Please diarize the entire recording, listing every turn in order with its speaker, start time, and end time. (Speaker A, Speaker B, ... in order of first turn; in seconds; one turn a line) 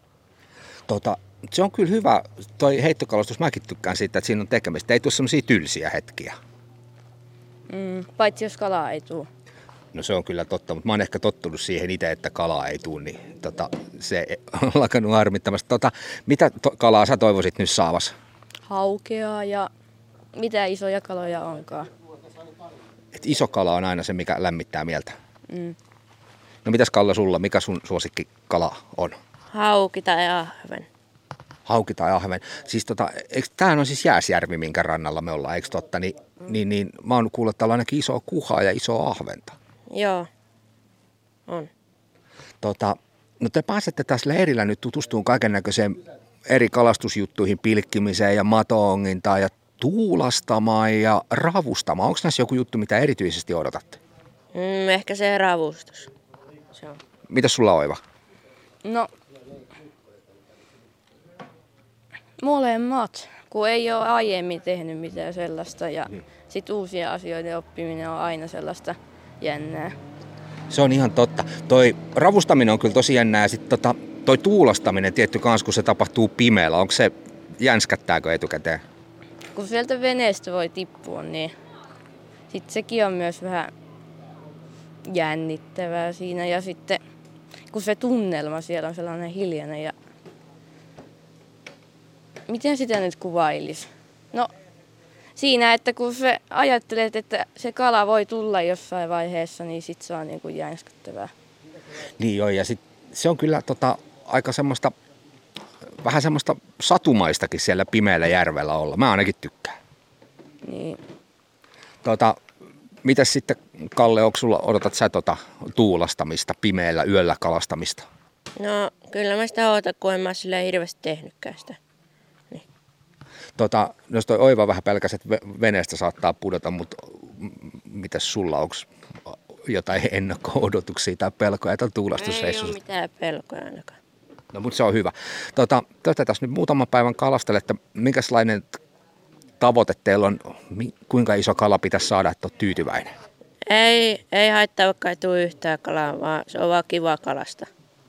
Speaker A: 0.9-6.3
Speaker B: 7.7-9.3
Speaker A: 9.9-18.1
Speaker B: 18.7-19.7
Speaker B: 20.4-21.9
Speaker A: 23.1-25.1
Speaker B: 25.5-25.8
Speaker A: 26.6-29.2
Speaker C: 29.5-30.9
Speaker A: 31.7-39.5
Speaker C: 39.9-40.3
Speaker A: 42.6-54.0
Speaker C: 54.5-56.1
Speaker C: 56.7-57.0
Speaker A: 57.3-58.0
Speaker B: 58.8-59.1
Speaker B: 62.4-69.9
Speaker A: 70.7-78.8
Speaker B: 79.5-81.5
Speaker B: 82.5-83.7
Speaker B: 85.1-87.0
Speaker B: 87.7-90.0
Speaker B: 92.5-94.5
Speaker B: 95.4-101.3
Speaker A: 102.2-104.9
Speaker A: 106.0-109.8
Speaker B: 110.6-111.0
Speaker A: 112.0-112.4
Speaker A: 113.0-118.1
Speaker C: 118.6-121.8
Speaker A: 123.6-132.8
Speaker C: 132.2-134.0
Speaker A: 134.5-138.7
Speaker A: 139.6-143.1
Speaker C: 143.7-147.7